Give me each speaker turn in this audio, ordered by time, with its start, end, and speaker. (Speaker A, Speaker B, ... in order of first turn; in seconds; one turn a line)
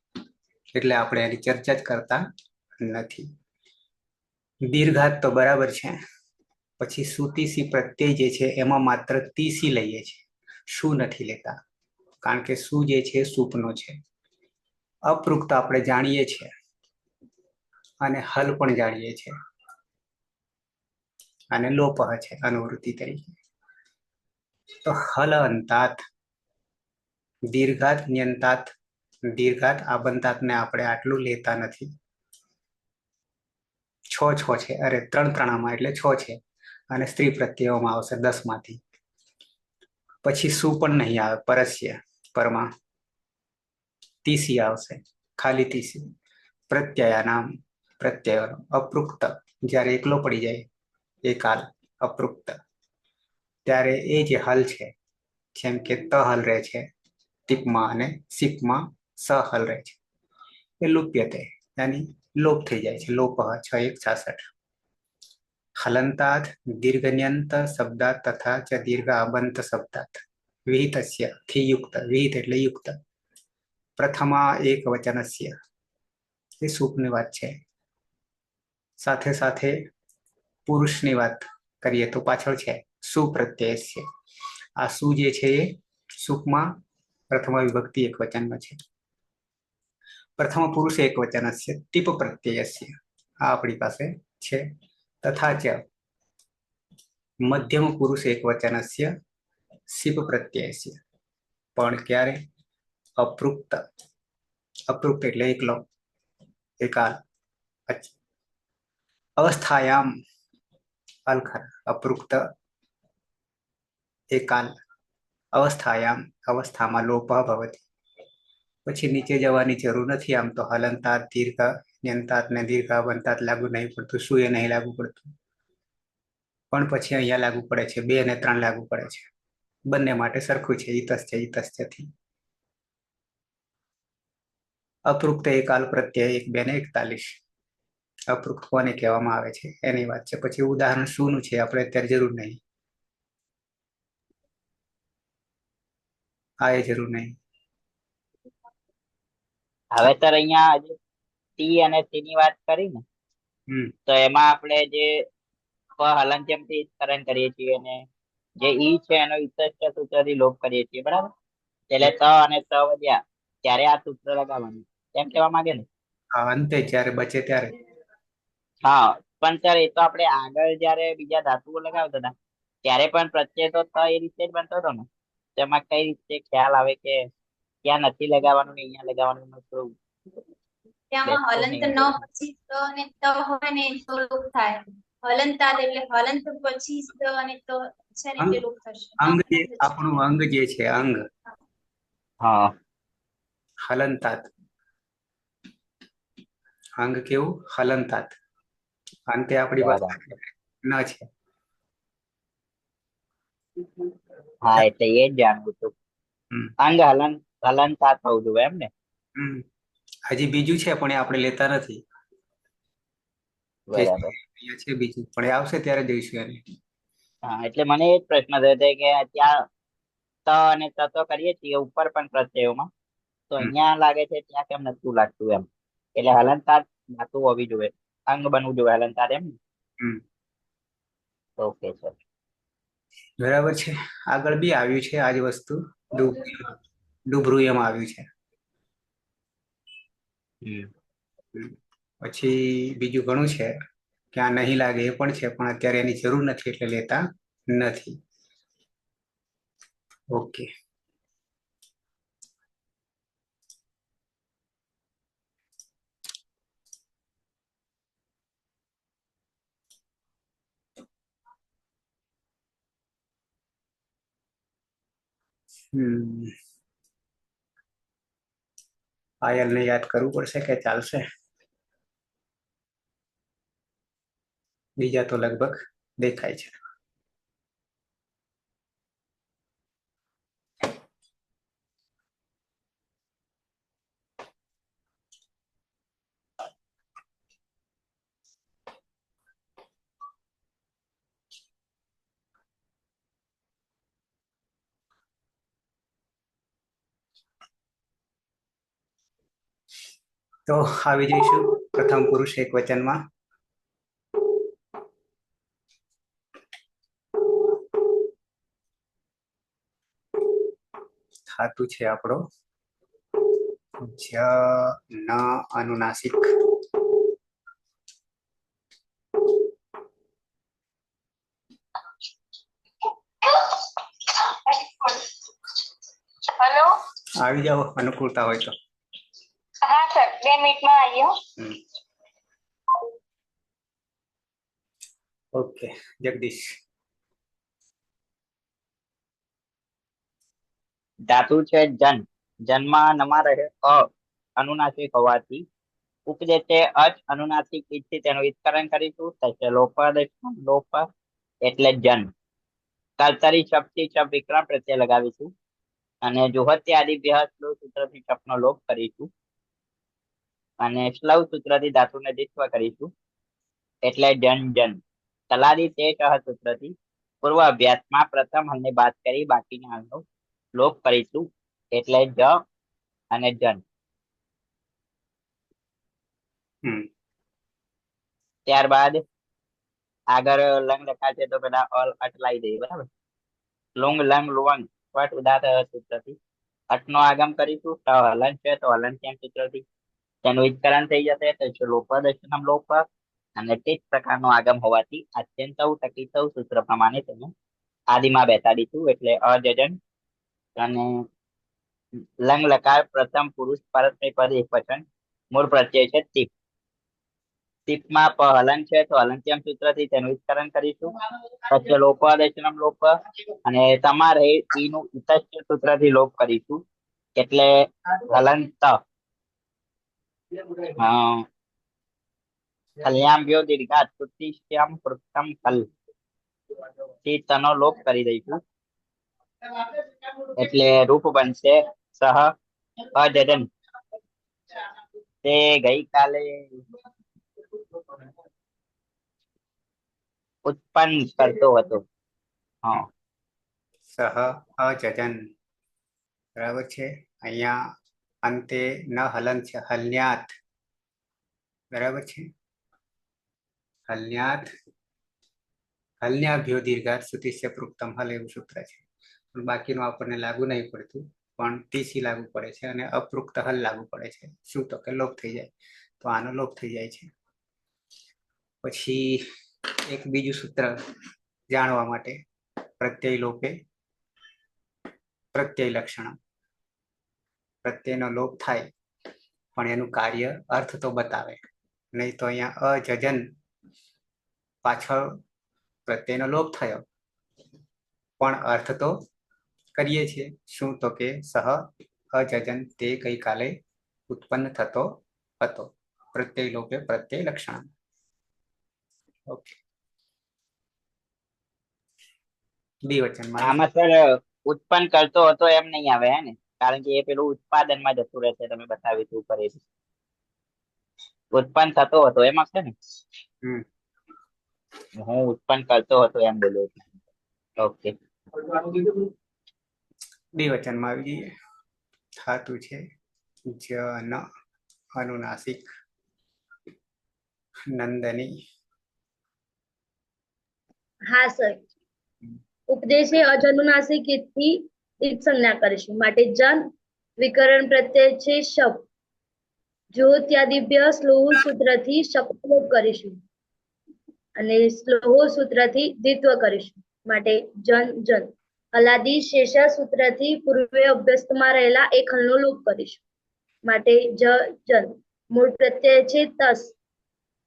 Speaker A: 0.7-2.2
Speaker A: 2.8-3.3
Speaker A: 4.6-6.0
Speaker A: 6.8-11.6
Speaker A: 12.2-14.0
Speaker A: 15.1-16.5
Speaker A: 18.0-19.3
Speaker A: 21.5-23.4
Speaker A: 24.8-26.0
Speaker A: 27.5-28.7
Speaker A: 29.3-31.9
Speaker A: 34.1-38.8
Speaker A: 40.2-42.7
Speaker A: 44.2-46.1
Speaker A: 46.7-50.7
Speaker A: 51.2-52.6
Speaker A: 53.7-54.9
Speaker A: 55.5-56.9
Speaker A: 57.5-60.0
Speaker A: 60.8-64.5
Speaker A: 65.8-73.0
Speaker A: 74.0-75.6
Speaker A: 76.6-77.6
Speaker A: 79.0-79.8
Speaker A: 80.7-84.1
Speaker A: 84.8-86.8
Speaker A: 87.3-88.8
Speaker A: 90.4-94.7
Speaker A: 95.2-95.8
Speaker A: 97.4-99.1
Speaker A: 99.9-101.0
Speaker A: 101.8-102.4
Speaker A: 103.2-103.8
Speaker A: 104.9-105.9
Speaker A: 106.8-107.2
Speaker A: 107.9-108.1
Speaker A: 109.4-110.1
Speaker A: 111.3-112.5
Speaker A: 114.3-114.7
Speaker A: 115.5-117.8
Speaker A: 118.9-125.3
Speaker A: 126.7-129.3
Speaker A: 129.9-132.1
Speaker A: 135.1-137.3
Speaker A: 138.3-142.6
Speaker A: 146.6-147.4
Speaker B: 149.9-150.9
Speaker B: 151.6-153.0
Speaker B: 154.1-155.2
Speaker B: 156.0-158.1
Speaker B: 158.6-161.3
Speaker B: 161.9-165.9
Speaker A: 166.3-167.8
Speaker B: 168.8-172.3
Speaker B: 172.8-177.3
Speaker B: 177.8-179.9
Speaker C: 181.1-190.2
Speaker B: 181.3-182.2
Speaker A: 189.2-191.2
Speaker B: 192.4-192.7
Speaker A: 193.8-194.5
Speaker A: 197.0-198.3
Speaker A: 199.3-201.3
Speaker B: 199.8-200.2
Speaker B: 204.6-205.9
Speaker B: 206.8-208.9
Speaker A: 209.4-209.7
Speaker A: 210.3-212.0
Speaker B: 213.9-214.3
Speaker A: 213.9-216.6
Speaker B: 217.5-219.7
Speaker B: 220.5-222.9
Speaker B: 223.5-229.6
Speaker B: 231.6-232.2
Speaker A: 233.4-236.8
Speaker A: 237.3-238.3
Speaker B: 240.6-240.9
Speaker A: 241.5-243.7
Speaker A: 244.3-248.2
Speaker A: 250.3-250.7
Speaker A: 265.9-266.6
Speaker A: 269.4-271.3
Speaker A: 275.0-276.8
Speaker A: 300.7-303.2
Speaker A: 311.5-312.4
Speaker A: 314.0-316.8
Speaker D: 324.7-325.2
Speaker D: 326.6-326.9
Speaker A: 327.4-328.7
Speaker D: 329.8-331.3
Speaker A: 335.5-336.8
Speaker B: 341.3-345.6
Speaker B: 346.3-351.1
Speaker B: 351.6-352.3
Speaker B: 353.2-355.5
Speaker B: 356.2-359.3
Speaker B: 360.8-363.1
Speaker B: 364.1-370.2
Speaker B: 370.8-372.6
Speaker B: 373.3-373.8
Speaker B: 378.7-379.2
Speaker B: 380.3-383.1
Speaker B: 384.0-386.4
Speaker B: 386.9-389.8
Speaker B: 390.4-393.1
Speaker B: 393.6-397.5
Speaker B: 398.1-400.0
Speaker B: 400.8-401.2
Speaker B: 402.4-406.5
Speaker B: 407.9-411.1
Speaker B: 411.7-416.8
Speaker B: 417.4-419.0
Speaker B: 420.9-421.5
Speaker B: 423.0-425.9
Speaker B: 427.2-428.6
Speaker B: 430.6-432.5
Speaker B: 433.1-433.7
Speaker B: 435.4-436.8
Speaker B: 440.7-442.0
Speaker A: 444.1-445.4
Speaker A: 446.6-447.8
Speaker A: 448.4-450.5
Speaker A: 451.9-452.5
Speaker A: 454.1-454.7
Speaker A: 456.2-465.7
Speaker A: 466.2-467.3
Speaker A: 468.8-469.5
Speaker A: 470.1-471.0
Speaker A: 471.7-472.4
Speaker A: 473.0-473.8
Speaker A: 475.5-476.4
Speaker A: 477.8-478.9
Speaker A: 479.8-481.6
Speaker A: 482.1-483.5
Speaker A: 484.8-485.4
Speaker A: 486.1-487.1
Speaker A: 488.4-489.2
Speaker A: 489.9-493.8
Speaker A: 494.3-497.9
Speaker A: 499.5-499.8
Speaker A: 503.1-503.8
Speaker B: 503.6-509.8
Speaker B: 511.5-512.9
Speaker B: 515.2-517.0
Speaker B: 517.8-518.1
Speaker A: 520.6-521.5
Speaker A: 522.4-523.0
Speaker A: 523.7-524.5
Speaker A: 525.2-525.9
Speaker A: 527.9-528.6
Speaker E: 531.3-531.8
Speaker E: 532.9-536.9
Speaker E: 537.4-539.0
Speaker E: 540.1-543.4
Speaker E: 544.6-553.2
Speaker E: 553.9-556.9